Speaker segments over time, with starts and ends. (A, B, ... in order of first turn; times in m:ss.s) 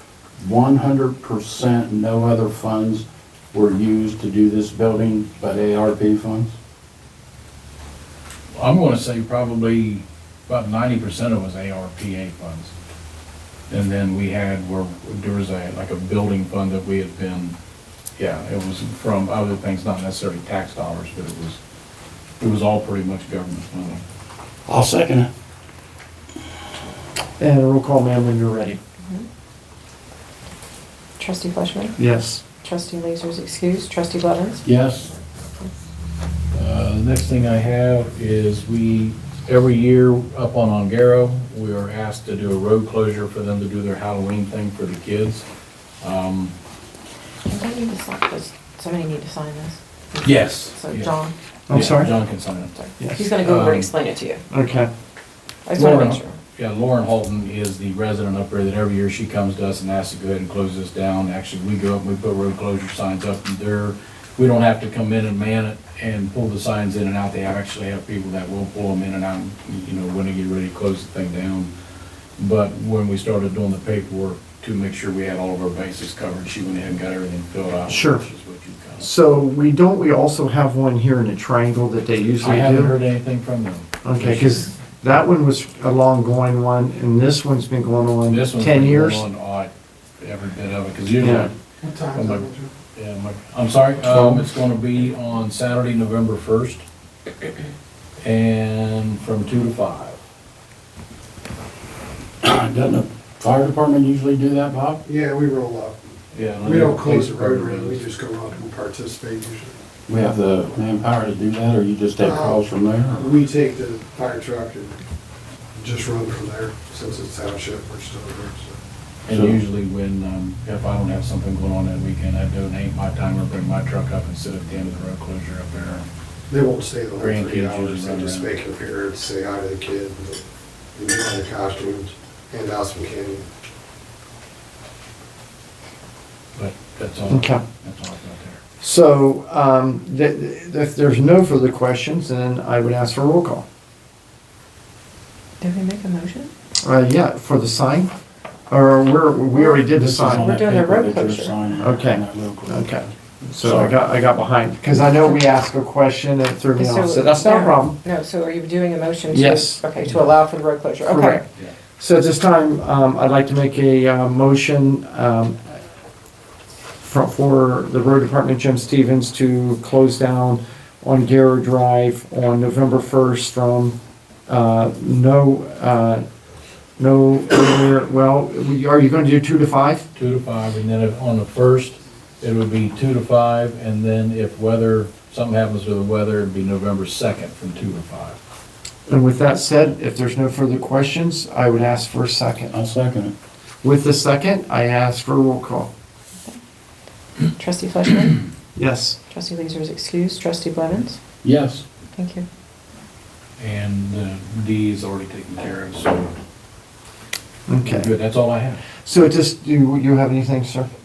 0:00.4-0:06.6 A
0:08.5-0:12.7 B
0:13.7-0:17.6 B
0:18.2-0:21.6 B
0:22.4-0:24.0 B
0:24.7-0:25.3 A
0:27.4-0:28.8 C
0:31.2-0:32.0 D
0:32.0-0:32.4 C
0:32.6-0:34.7 D
0:34.6-0:35.1 A
0:36.5-0:45.4 B
0:46.0-0:46.5 B
0:47.5-0:51.3 D
0:50.2-0:51.1 B
0:51.7-0:52.1 C
0:51.7-0:53.9 B
0:52.8-0:54.4 D
0:54.5-0:54.9 C
0:55.7-0:56.4 D
0:55.8-1:11.7 B
1:12.4-1:19.1 B
1:17.9-1:18.2 C
1:19.0-1:23.0 C
1:22.4-1:24.7 B
1:24.0-1:29.2 C
1:28.3-1:36.8 B
1:31.2-1:31.5 C
1:31.8-1:32.7 E
1:34.1-1:34.4 C
1:38.2-1:40.2 B
1:42.4-1:45.0 A
1:45.0-1:46.0 E
1:46.3-1:48.1 B
1:46.6-1:49.7 E
1:50.1-1:53.3 A
1:52.2-1:52.6 E
1:53.1-1:55.0 E
1:55.8-1:58.8 E
1:59.3-1:59.6 A
1:59.3-2:06.1 B
2:06.5-2:10.4 E
2:07.2-2:08.6 B
2:11.0-2:13.5 E
2:16.6-2:18.6 B
2:17.3-2:17.6 C
2:18.8-2:23.6 C
2:25.6-2:26.5 D
2:26.8-2:28.1 C
2:28.7-2:30.5 C
2:29.5-2:29.8 D
2:29.8-2:33.1 A
2:30.3-2:31.6 D
2:31.8-2:38.0 C
2:35.0-2:35.4 D
2:36.8-2:41.4 D
2:39.3-2:39.8 C
2:41.1-2:41.5 C
2:42.0-2:45.8 C
2:47.0-2:54.0 C
2:54.5-2:56.2 C
2:57.0-3:00.1 C
3:00.2-3:08.4 B
3:09.1-3:12.7 C
3:12.7-3:13.3 A
3:13.8-3:15.9 C
3:17.6-3:18.4 D
3:18.8-3:19.2 C
3:19.2-3:21.2 D
3:21.4-3:21.8 A
3:22.2-3:22.5 D
3:23.6-3:26.3 B
3:27.7-3:28.1 C
3:27.8-3:28.8 B
3:29.0-3:30.9 C